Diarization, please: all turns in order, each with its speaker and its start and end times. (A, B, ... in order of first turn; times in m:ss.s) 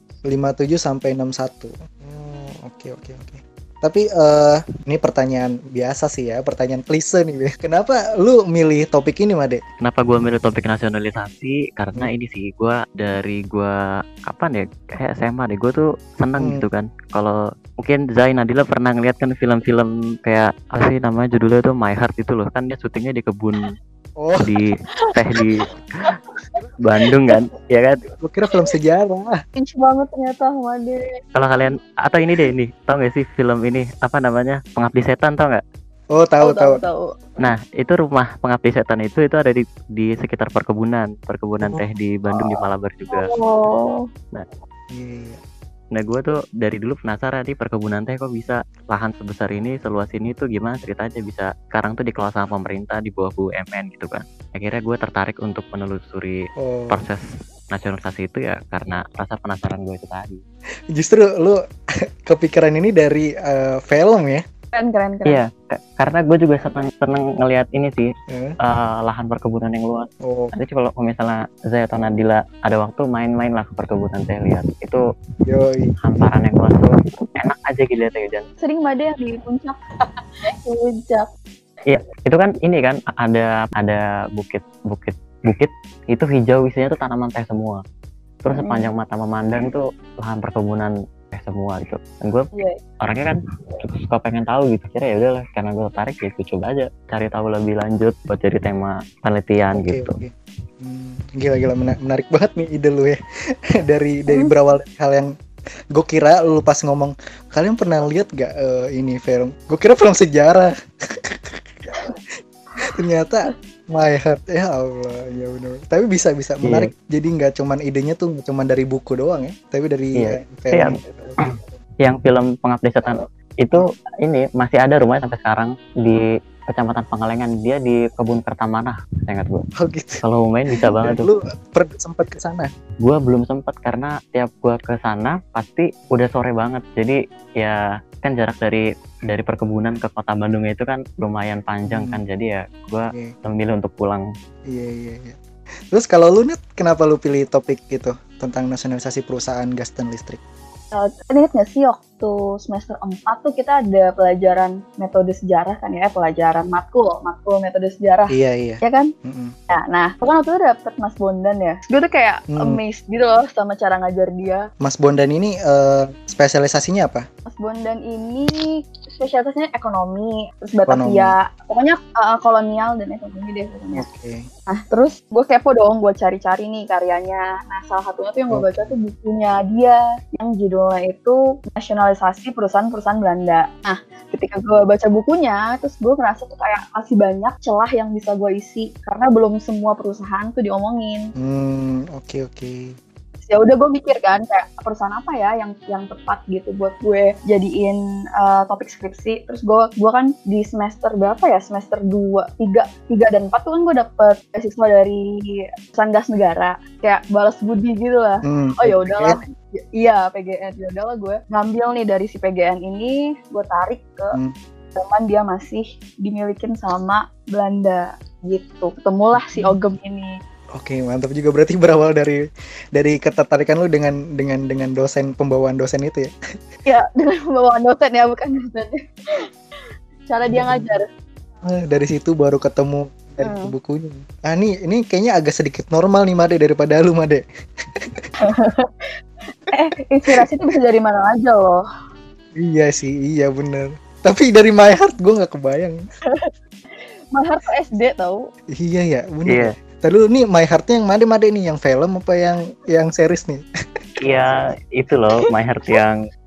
0:00.3-0:09.6 A
0:09.8-0:13.7 B
0:14.2-0:23.7 B
0:16.4-0:16.7 A
0:24.2-0:24.6 A
0:24.4-0:25.7 B
0:26.8-0:28.0 B
0:27.0-0:27.4 C
0:28.2-0:29.4 A
0:29.6-0:31.0 C
0:31.4-0:35.6 B
0:36.1-0:36.8 A
0:36.4-0:37.2 C
0:37.4-0:43.3 B
0:43.1-0:44.0 C
0:44.9-0:45.4 A
0:45.9-1:00.4 B
0:56.6-0:57.0 A
1:00.9-1:01.6 A
1:02.3-1:04.4 A
1:04.7-1:05.4 C
1:05.3-1:08.0 B
1:08.3-1:08.6 A
1:08.6-1:15.0 B
1:10.2-1:10.5 A
1:15.5-1:15.9 A
1:16.0-1:18.5 B
1:18.6-1:19.8 C
1:20.6-1:21.3 C
1:21.9-1:27.8 B
1:28.4-1:32.5 B
1:28.5-1:28.9 C
1:33.0-1:40.2 B
1:39.7-1:43.2 A
1:43.8-1:45.3 A
1:45.9-1:50.7 A
1:51.2-1:52.0 A
1:52.9-2:01.4 A
2:00.2-2:01.5 B
2:02.0-2:09.6 B
2:09.8-2:10.2 A
2:10.2-2:11.3 B
2:10.9-2:12.7 A
2:13.0-2:24.2 B
2:21.9-2:22.2 A
2:24.7-2:25.4 A
2:25.9-2:30.4 A
2:30.9-2:39.1 C
2:38.3-2:39.5 A
2:39.7-2:44.7 C
2:42.5-2:42.8 A
2:44.8-2:47.2 A
2:47.5-2:48.5 C
2:49.1-2:54.1 C
2:50.9-2:51.4 A
2:53.9-2:54.5 A
2:54.7-3:11.3 C
2:58.5-2:59.0 A
3:11.4-3:13.0 A
3:13.5-3:34.4 C
3:28.4-3:29.4 A
3:35.0-3:40.3 C
3:39.4-3:39.8 A
3:40.8-3:42.4 A
3:43.0-3:46.3 A
3:46.9-3:49.0 C
3:50.3-3:51.1 C
3:50.5-3:50.8 A
3:51.6-3:57.4 A
3:53.4-3:53.8 C
3:58.0-3:58.3 A
3:58.4-3:59.1 C
3:59.7-4:01.8 C
4:02.6-4:06.0 A
4:06.3-4:08.4 C
4:08.7-4:13.6 A
4:14.2-4:16.2 B